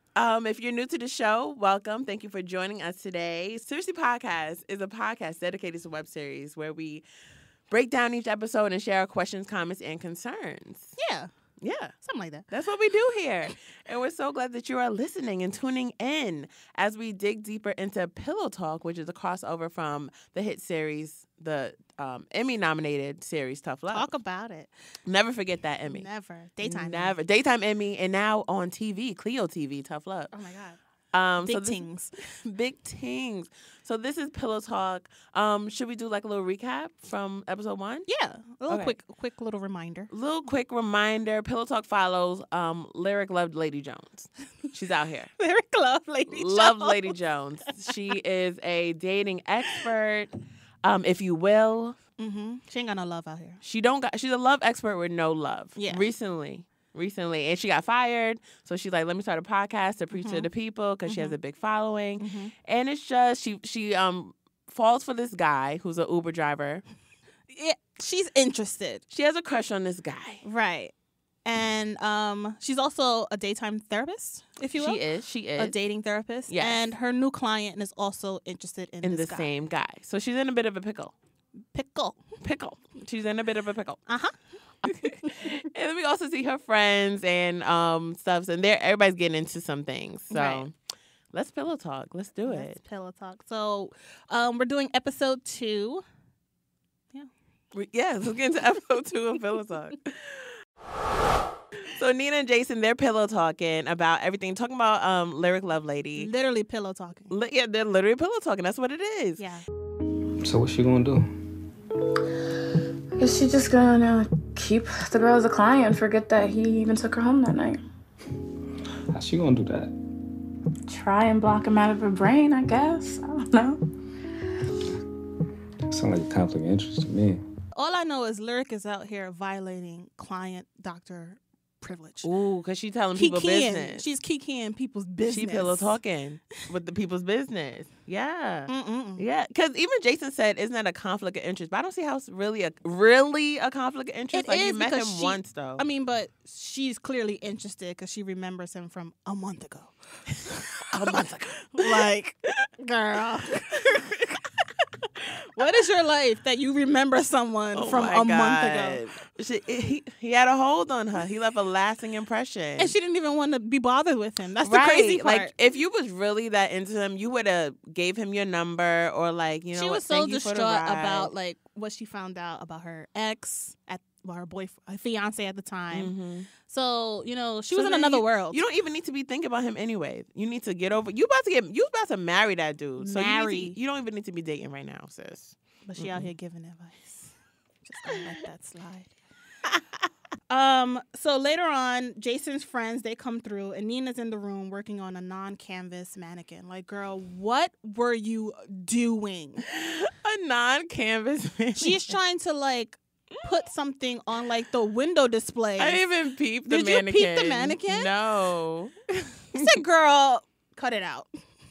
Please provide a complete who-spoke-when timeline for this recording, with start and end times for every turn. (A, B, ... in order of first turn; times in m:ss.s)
0:00.2-0:07.0 A
0:07.7-0:10.9 A
0:11.0-0:11.3 B
0:11.6-0:11.9 A
0:12.0-0:12.5 B
0:12.5-0:24.1 A
0:23.9-0:24.7 B
0:25.0-0:26.1 A
0:25.9-0:27.2 B
0:26.6-0:30.3 A
0:30.3-0:30.8 B
0:31.1-0:31.8 A
0:31.4-0:32.1 B
0:32.4-0:38.1 A
0:38.1-0:40.1 B
0:38.7-0:38.9 A
0:40.1-0:45.3 A
0:45.4-0:47.1 B
0:46.3-0:50.3 A
0:50.8-0:52.0 A
0:52.2-0:53.6 B
0:53.6-1:06.8 A
0:55.8-0:56.0 B
1:00.1-1:00.5 B
1:01.1-1:01.4 B
1:02.2-1:02.5 B
1:07.5-1:09.0 B
1:09.1-1:10.4 A
1:10.4-1:10.9 B
1:11.4-1:15.0 B
1:14.8-1:15.8 A
1:15.6-1:19.5 B
1:16.5-1:16.8 A
1:19.0-1:21.1 A
1:21.7-1:22.2 B
1:22.4-1:24.0 A
1:24.1-1:25.3 B
1:24.8-1:30.7 A
1:30.3-1:30.6 B
1:31.3-1:32.8 A
1:32.4-1:36.0 B
1:37.7-1:40.1 A
1:41.9-1:46.3 A
1:46.2-1:47.3 B
1:47.3-1:49.4 A
1:50.4-1:51.3 C
1:53.2-1:57.8 D
1:59.1-1:59.9 C
2:00.9-2:03.8 D
2:05.9-2:07.4 C
2:07.8-2:12.3 B
2:12.2-2:14.0 A
2:13.2-2:16.0 B
2:15.3-2:25.8 A
2:18.7-2:19.2 B
2:24.3-2:29.9 B
2:30.9-2:32.0 A
2:31.1-2:34.4 B
2:35.2-2:39.0 B
2:37.7-2:42.9 A
2:42.8-2:45.5 B
2:44.6-2:51.3 A
2:49.7-2:56.1 B
2:55.9-2:56.5 A
2:56.6-2:58.6 B
2:57.7-3:06.3 A
3:03.0-3:03.8 B
3:05.8-3:09.1 B
3:10.5-3:19.6 B
3:19.7-3:22.1 A
3:21.8-3:26.0 B
3:25.8-3:29.0 A
3:26.7-3:28.1 B
3:29.5-3:31.4 B